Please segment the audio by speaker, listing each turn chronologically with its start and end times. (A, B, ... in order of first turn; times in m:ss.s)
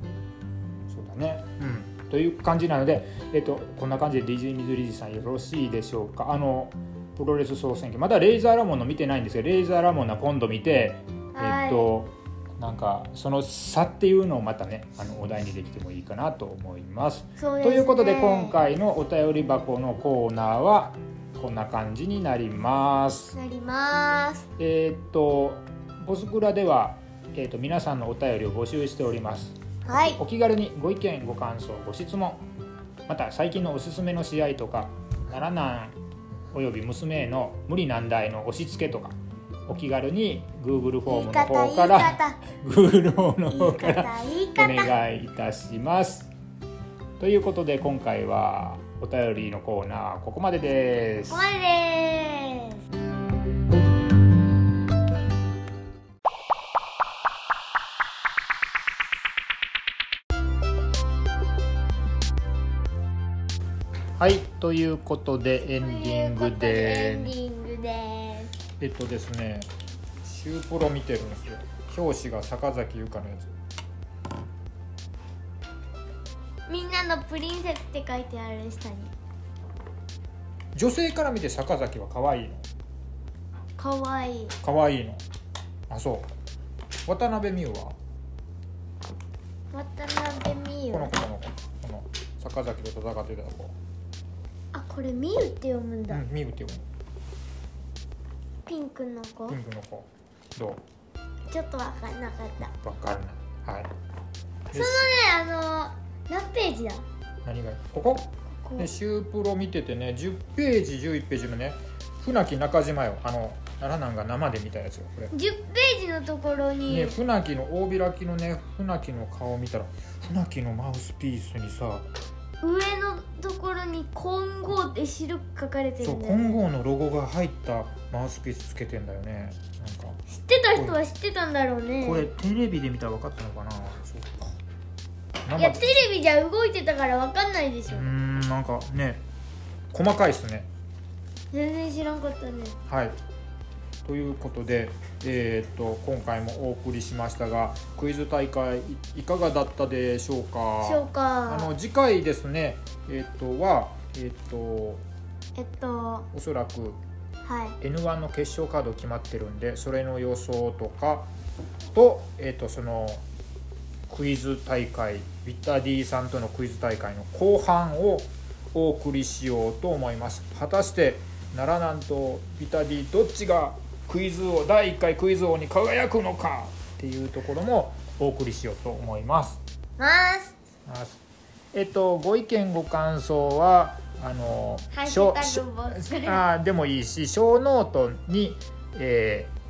0:00.9-0:23.3 A
0:11.3-0:11.9 B
0:17.4-0:18.6 B
0:23.3-0:24.5 B
0:24.6-0:32.4 A
0:29.8-0:30.2 B
0:33.1-0:36.0 A
0:36.5-0:39.1 A
0:39.7-0:46.3 A
0:41.1-0:42.4 B
0:43.5-0:44.9 B
0:47.2-0:51.5 A
0:51.3-0:52.8 B
1:04.2-1:07.3 A
1:05.7-1:08.5 B
1:08.8-1:09.7 A
1:10.2-1:13.5 A
1:16.7-1:19.1 B
1:20.7-1:22.7 A
1:23.8-1:24.6 B
1:24.6-1:25.2 A
1:25.9-1:26.3 A
1:27.0-1:28.0 A
1:29.7-1:31.1 B
1:30.9-1:33.8 A
1:34.7-1:36.2 B
1:36.1-1:36.9 A
1:38.7-1:39.6 B
1:39.5-1:40.8 A
1:41.5-1:42.7 B
1:42.6-1:43.9 A
1:44.7-1:45.1 A
1:44.7-1:47.0 B
1:47.4-1:55.3 A
1:48.6-1:48.9 B
1:55.3-1:57.2 B
1:56.9-2:02.0 A
2:02.6-2:06.6 B
2:06.0-2:10.2 A
2:10.3-2:12.3 B
2:12.0-2:14.5 A
2:15.4-2:16.0 A
2:15.6-2:18.1 B
2:17.9-2:19.2 A
2:19.9-2:20.7 A
2:21.5-2:22.8 B
2:22.9-2:23.2 A
2:24.0-2:35.0 A
2:30.8-2:31.7 B
2:35.6-2:36.3 B
2:36.3-2:37.0 A
2:37.4-2:37.8 B
2:37.8-2:41.3 A
2:41.9-2:43.2 A
2:44.1-2:59.6 A
3:00.0-3:00.5 B
3:00.8-3:01.2 A
3:01.7-3:09.5 A
3:04.9-3:06.4 B